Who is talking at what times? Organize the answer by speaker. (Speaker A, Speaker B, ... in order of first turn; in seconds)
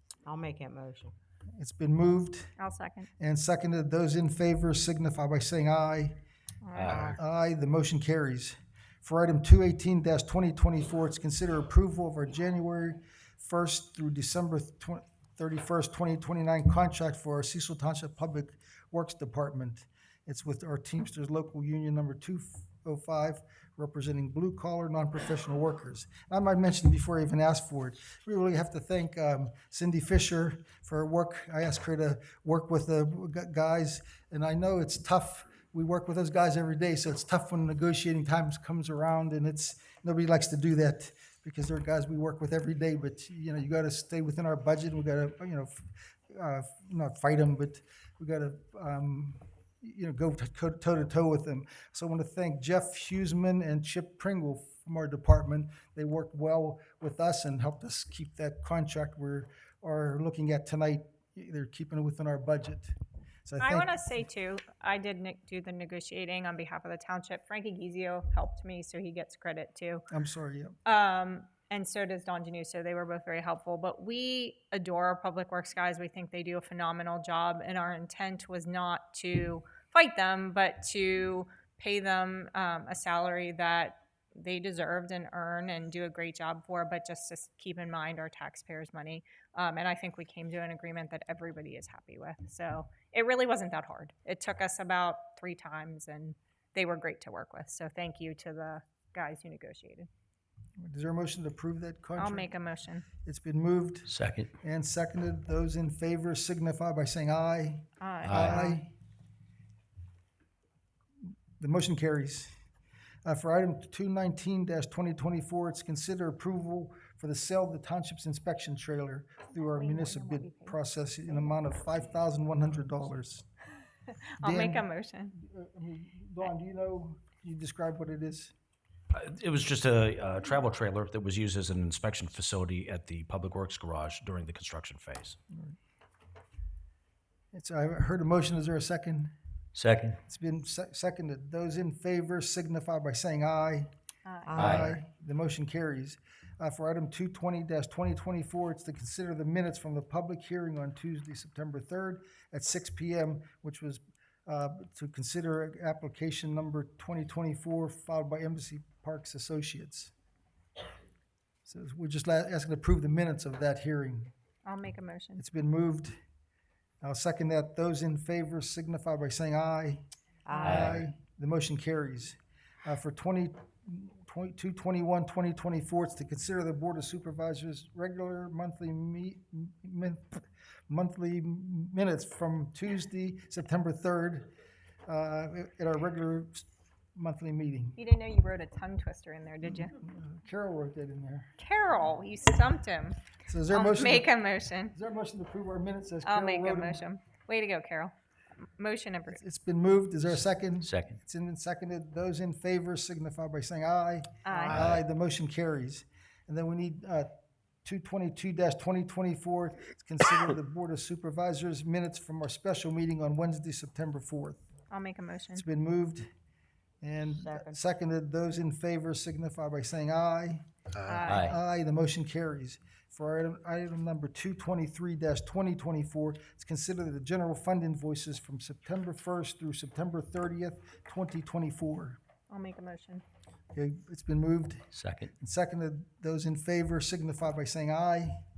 Speaker A: 0.2-1.1, 144.4-144.9, 170.5-170.8, 204.5-204.8, 217.4-217.8
Speaker B: 1.6-2.5, 3.2-6.2, 7.0-62.9, 63.5-64.0, 70.1-70.8, 100.8-102.5, 103.2-108.9, 111.6-112.5, 113.2-123.5, 124.4-128.5, 137.5-139.3, 140.2-143.9, 144.5-160.1, 161.6-164.3, 165.4-166.2, 167.0-170.0, 170.6-184.5, 185.1-188.0, 189.8-191.5, 193.4-197.0, 199.3-207.3, 207.8-214.6, 215.5-216.3, 217.0-220.6, 221.2-232.2, 233.7-238.4
Speaker C: 2.6-3.1, 6.6-7.2, 63.6-70.0, 70.8-100.1, 102.2-103.0, 108.0-108.8, 119.5-120.8, 124.4-125.3, 144.2-144.7, 164.6-165.4, 170.6-170.9, 187.9-189.9, 191.6-194.9, 196.2-198.1, 198.8-199.4, 204.4-204.8, 214.9-215.6, 221.1-221.6, 232.5-233.2
Speaker D: 6.8-7.2, 104.1-104.5, 108.2-108.6, 129.1-135.4, 139.7-140.2, 144.6-144.9, 170.7-171.0, 200.8-201.2, 221.2-221.6, 234.9-235.3